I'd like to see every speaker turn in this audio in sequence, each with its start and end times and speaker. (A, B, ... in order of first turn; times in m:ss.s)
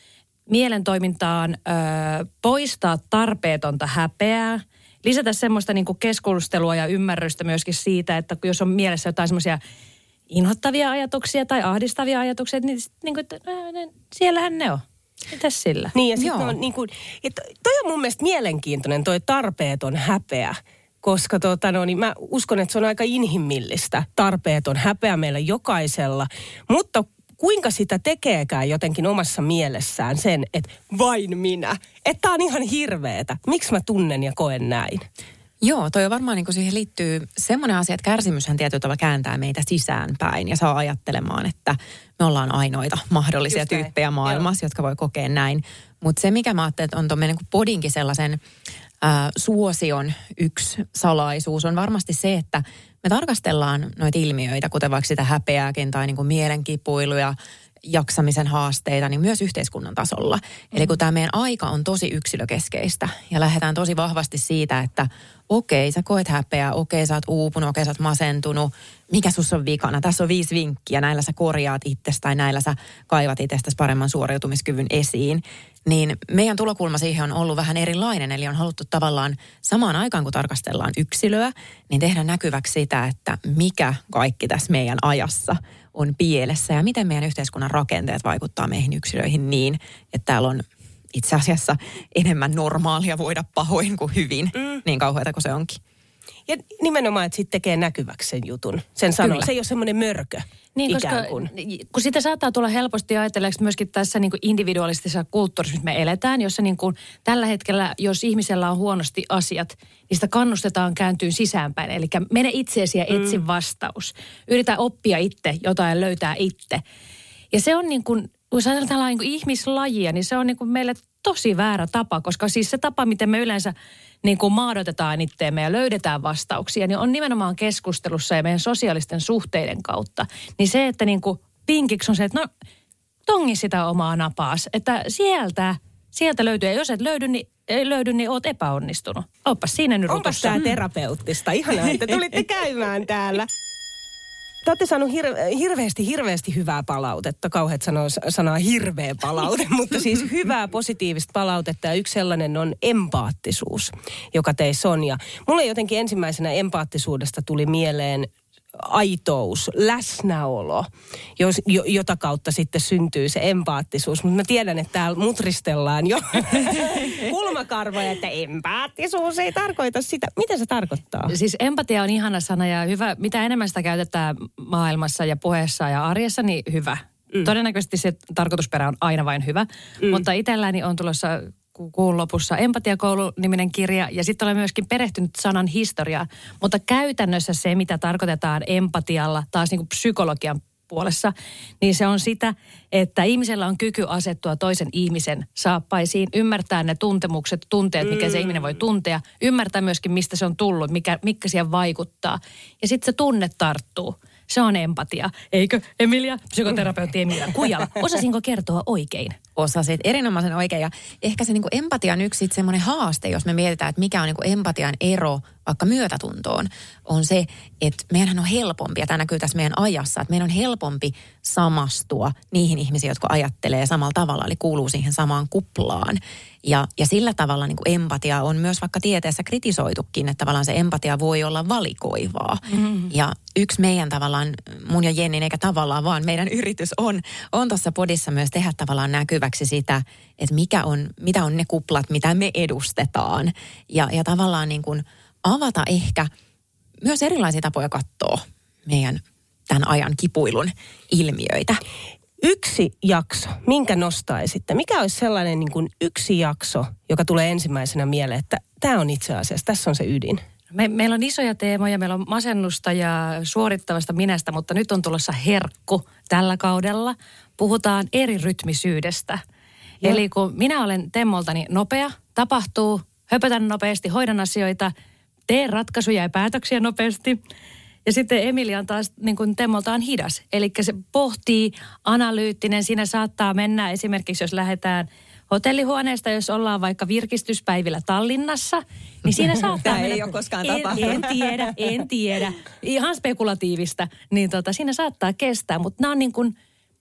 0:00.5-0:09.6 A
0:10.3-0:15.9 A
0:15.9-0:35.1 B
0:16.2-0:16.6 C
0:35.6-0:48.4 C
0:43.5-0:44.5 B
0:49.0-1:35.8 C
1:36.5-1:41.5 B
1:39.2-1:39.5 A
1:40.8-1:56.8 A
1:53.1-1:53.4 B
1:57.5-2:12.5 A
2:13.3-2:20.7 A
2:20.1-2:23.5 B
2:24.6-2:51.3 B
2:51.3-3:29.4 A
3:18.0-3:18.7 B
3:29.6-4:06.3 C
3:52.7-3:53.1 A
4:07.0-4:11.8 C
4:12.4-4:20.4 B
4:20.7-4:29.4 A
4:30.0-4:34.9 A
4:35.5-4:37.4 A
4:38.1-4:56.5 A
4:49.3-4:51.3 C